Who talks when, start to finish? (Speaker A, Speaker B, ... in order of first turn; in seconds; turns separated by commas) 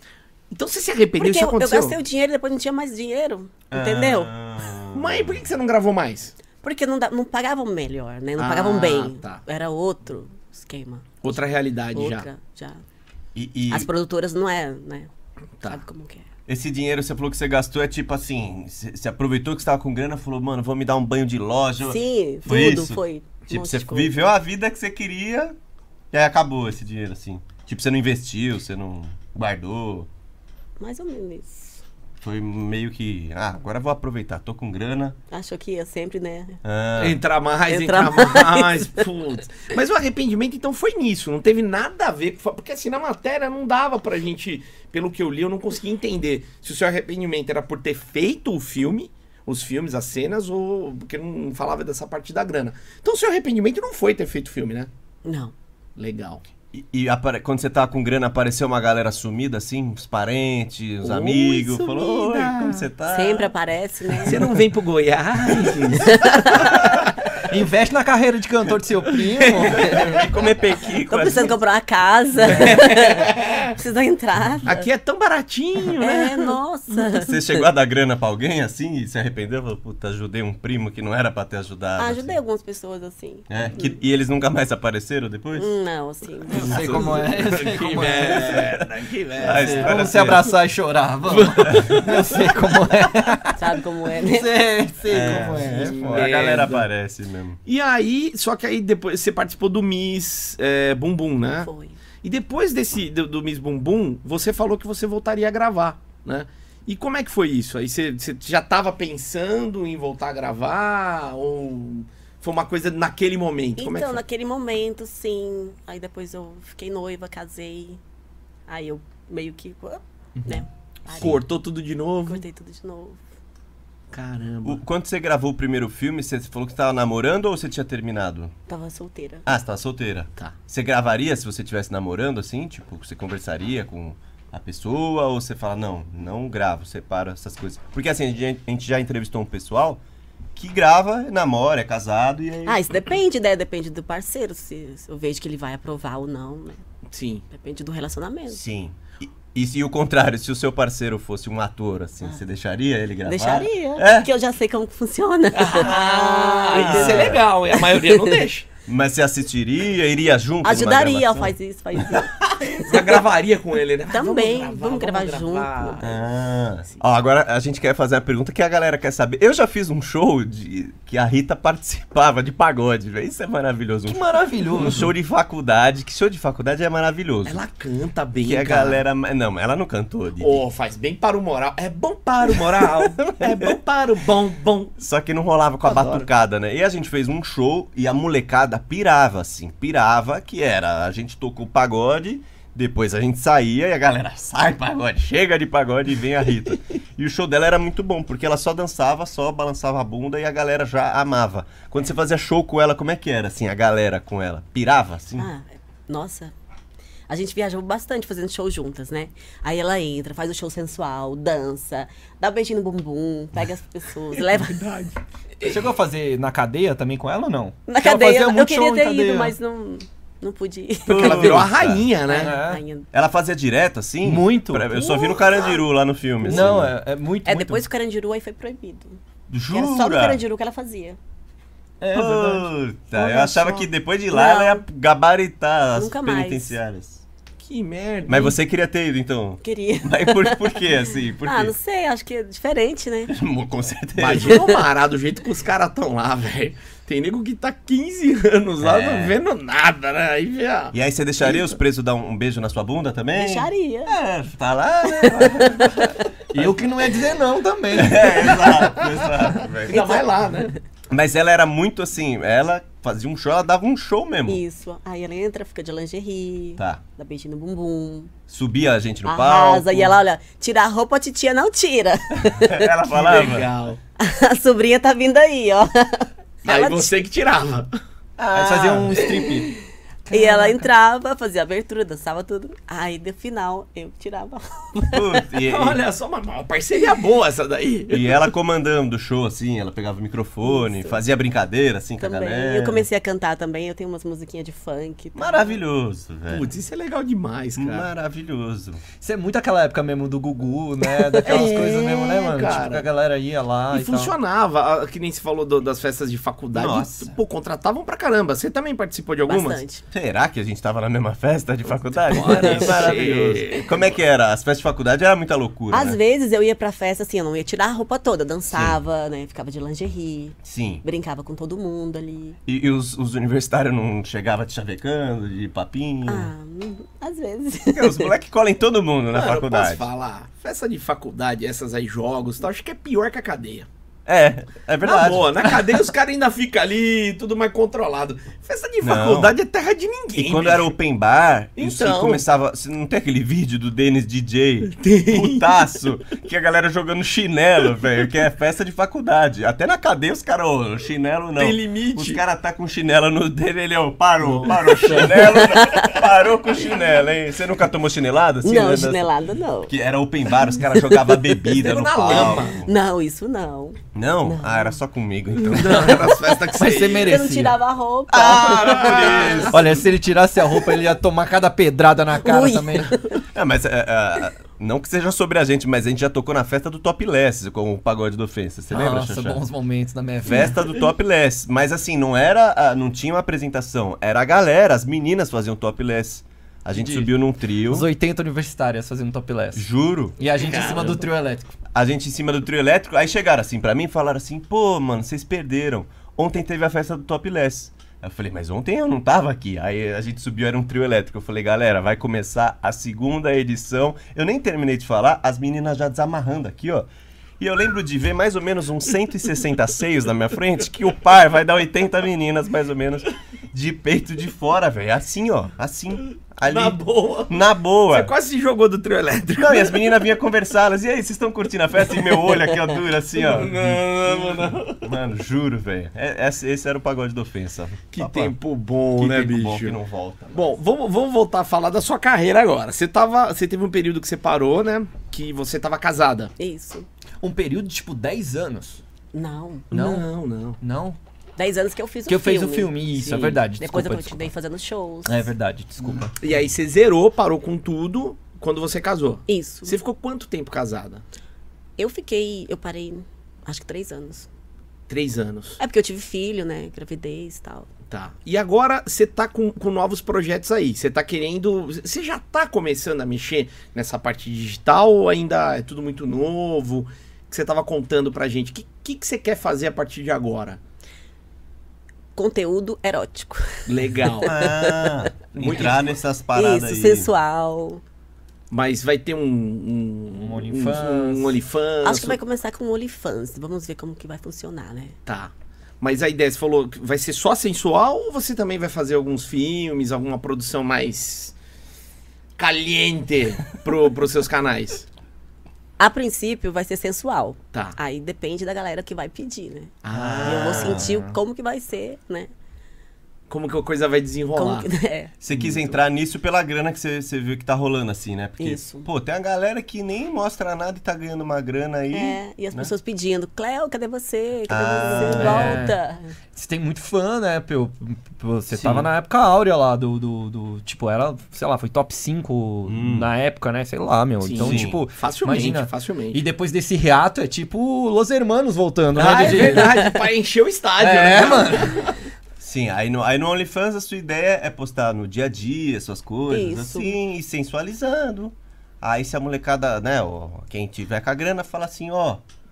Speaker A: 0.5-2.0, Speaker B: 1.2-4.3, Speaker C: 3.7-5.5, Speaker A: 4.9-6.3, Speaker B: 6.6-11.3, Speaker A: 8.4-9.4, Speaker A: 11.2-12.3, Speaker B: 11.9-12.8, Speaker C: 13.3-13.9, Speaker B: 13.7-15.1, Speaker B: 15.7-16.3, Speaker C: 16.5-25.6, Speaker B: 21.9-24.1, Speaker C: 26.1-30.1, Speaker B: 30.8-31.8, Speaker C: 32.2-35.2, Speaker B: 35.3-36.6, Speaker C: 36.6-37.2, Speaker A: 37.0-54.9, Speaker B: 37.7-39.0, Speaker B: 55.2-55.5, Speaker A: 56.0-56.4, Speaker C: 56.7-63.5, Speaker A: 61.0-62.8, Speaker B: 61.7-62.5, Speaker B: 63.1-64.5, Speaker A: 64.2-67.0, Speaker B: 66.0-66.9, Speaker D: 67.5-70.1, Speaker A: 69.4-70.2, Speaker C: 69.7-71.6, Speaker B: 71.1-74.9, Speaker A: 72.5-73.7, Speaker A: 74.7-76.6, Speaker B: 76.0-77.7, Speaker C: 77.2-82.4, Speaker B: 82.0-84.0, Speaker C: 83.5-85.7, Speaker B: 85.6-87.1, Speaker D: 86.5-88.7, Speaker A: 86.5-90.0, Speaker C: 88.5-88.8, Speaker C: 89.4-90.5, Speaker D: 89.6-96.8, Speaker A: 91.3-92.4, Speaker B: 93.5-94.6, Speaker C: 95.1-97.6, Speaker A: 95.3-96.8, Speaker A: 97.7-101.7, Speaker B: 101.6-102.0, Speaker A: 102.2-114.2, Speaker B: 113.8-118.0, Speaker B: 118.7-121.4, Speaker D: 120.4-120.7, Speaker A: 121.1-122.4, Speaker C: 121.1-121.4, Speaker B: 122.3-123.2, Speaker A: 124.1-124.8, Speaker C: 124.7-128.5, Speaker B: 128.7-129.5, Speaker C: 129.5-140.0, Speaker C: 140.6-142.8, Speaker B: 142.7-146.8, Speaker A: 147.1-147.5, Speaker B: 147.5-148.6, Speaker C: 148.5-154.3, Speaker B: 153.2-158.4, Speaker A: 155.5-158.7, Speaker C: 155.8-156.2, Speaker C: 156.7-157.4, Speaker C: 158.9-163.0, Speaker B: 160.6-162.9, Speaker A: 162.8-166.2, Speaker B: 164.1-166.0, Speaker C: 166.0-177.6, Speaker D: 174.1-175.1, Speaker A: 177.4-179.0, Speaker C: 178.4-180.6, Speaker A: 180.4-184.9, Speaker C: 183.2-183.5, Speaker C: 185.0-205.5, Speaker A: 185.8-186.3, Speaker B: 205.4-206.5, Speaker B: 207.3-214.9, Speaker A: 214.5-215.7, Speaker D: 215.6-219.6, Speaker B: 217.9-221.7, Speaker C: 221.1-222.1, Speaker A: 221.1-222.6, Speaker B: 222.3-223.1, Speaker D: 222.3-222.8, Speaker C: 223.1-226.9, Speaker D: 224.2-224.9, Speaker B: 224.9-225.8, Speaker D: 226.4-227.8, Speaker B: 227.4-229.2, Speaker C: 229.5-230.4, Speaker B: 229.7-231.2, Speaker D: 232.0-232.7, Speaker C: 232.1-237.2, Speaker B: 233.2-234.8, Speaker B: 235.9-236.8, Speaker A: 237.6-238.6, Speaker C: 238.3-241.7, Speaker B: 239.6-243.3, Speaker C: 243.3-244.7, Speaker A: 244.2-251.7, Speaker C: 248.8-249.4, Speaker C: 250.9-256.7, Speaker B: 253.3-254.2, Speaker B: 255.0-256.1, Speaker D: 256.5-258.4, Speaker C: 257.9-260.2, Speaker A: 258.5-259.3, Speaker A: 259.9-260.8, Speaker B: 259.9-260.2, Speaker C: 261.1-264.6, Speaker B: 264.5-268.3, Speaker C: 268.5-270.2, Speaker B: 269.2-272.9, Speaker C: 272.4-273.7, Speaker A: 273.1-274.0, Speaker B: 274.2-277.2, Speaker A: 276.6-277.9, Speaker C: 278.4-279.4, Speaker D: 278.5-279.7, Speaker D: 280.3-280.9, Speaker B: 280.3-285.4, Speaker C: 285.1-286.0, Speaker A: 285.6-288.4, Speaker C: 288.1-293.1, Speaker B: 290.6-291.2, Speaker B: 292.2-295.8, Speaker C: 295.4-296.7, Speaker A: 296.5-298.1, Speaker C: 297.8-299.0, Speaker D: 299.2-304.3, Speaker B: 301.1-301.4, Speaker A: 301.4-303.1, Speaker A: 303.9-309.8, Speaker C: 306.7-307.4, Speaker B: 309.5-310.0, Speaker C: 310.1-316.2, Speaker A: 312.3-313.9, Speaker B: 312.5-313.1, Speaker B: 315.9-322.6, Speaker C: 318.7-319.0, Speaker C: 320.6-321.0, Speaker C: 322.7-326.5, Speaker B: 326.3-328.3, Speaker C: 327.9-330.1, Speaker A: 329.3-333.9, Speaker C: 334.3-335.7, Speaker A: 335.0-340.9, Speaker C: 339.0-339.6, Speaker C: 340.4-359.3, Speaker A: 341.8-342.4, Speaker A: 344.9-345.7, Speaker A: 351.6-352.4, Speaker A: 354.4-355.5, Speaker B: 355.1-356.3, Speaker B: 358.6-359.9, Speaker C: 359.9-362.9, Speaker B: 360.6-365.0, Speaker A: 361.7-362.8, Speaker C: 364.1-366.4, Speaker A: 365.6-367.4, Speaker D: 366.7-367.8, Speaker B: 367.0-369.8, Speaker C: 368.3-369.9, Speaker A: 368.7-369.7, Speaker D: 369.7-373.2, Speaker B: 372.4-373.4, Speaker C: 373.4-379.6, Speaker D: 378.9-380.8, Speaker C: 380.5-388.1, Speaker D: 386.9-387.3, Speaker D: 387.9-391.7, Speaker C: 389.8-390.4, Speaker A: 390.6-391.2, Speaker C: 391.9-418.3, Speaker A: 416.6-417.6, Speaker A: 418.1-420.1, Speaker C: 419.6-428.5, Speaker A: 423.4-425.1, Speaker A: 428.1-430.0, Speaker C: 429.2-430.8, Speaker A: 430.5-436.5, Speaker B: 436.6-437.1, Speaker D: 437.4-439.0, Speaker B: 439.3-439.9, Speaker A: 439.9-440.8, Speaker D: 439.9-440.3, Speaker D: 440.8-441.2, Speaker B: 441.6-445.5, Speaker D: 442.3-444.5, Speaker D: 445.3-446.3, Speaker A: 446.4-451.2, Speaker B: 449.5-450.0, Speaker B: 452.0-454.5, Speaker A: 455.1-455.8, Speaker B: 455.8-457.9, Speaker A: 458.1-470.8, Speaker B: 472.4-475.9, Speaker A: 473.9-474.5, Speaker C: 474.4-477.3, Speaker A: 475.5-476.1, Speaker B: 476.5-478.0, Speaker A: 478.7-482.4, Speaker D: 480.3-481.6, Speaker B: 482.0-485.2, Speaker A: 485.3-491.6, Speaker A: 492.6-495.1, Speaker B: 496.0-502.5, Speaker A: 500.0-501.0, Speaker C: 500.1-501.2, Speaker D: 501.1-501.4, Speaker A: 503.5-504.9, Speaker B: 504.6-505.3, Speaker C: 505.4-512.9, Speaker A: 505.5-505.9, Speaker B: 508.6-509.1, Speaker B: 512.1-516.3, Speaker C: 514.7-515.8, Speaker D: 515.2-516.0, Speaker D: 516.5-530.1, Speaker C: 518.7-519.1, Speaker C: 522.9-523.3, Speaker A: 524.4-526.4, Speaker C: 524.6-525.0, Speaker A: 529.1-532.2, Speaker D: 531.0-532.0, Speaker C: 532.6-542.4, Speaker B: 536.5-537.2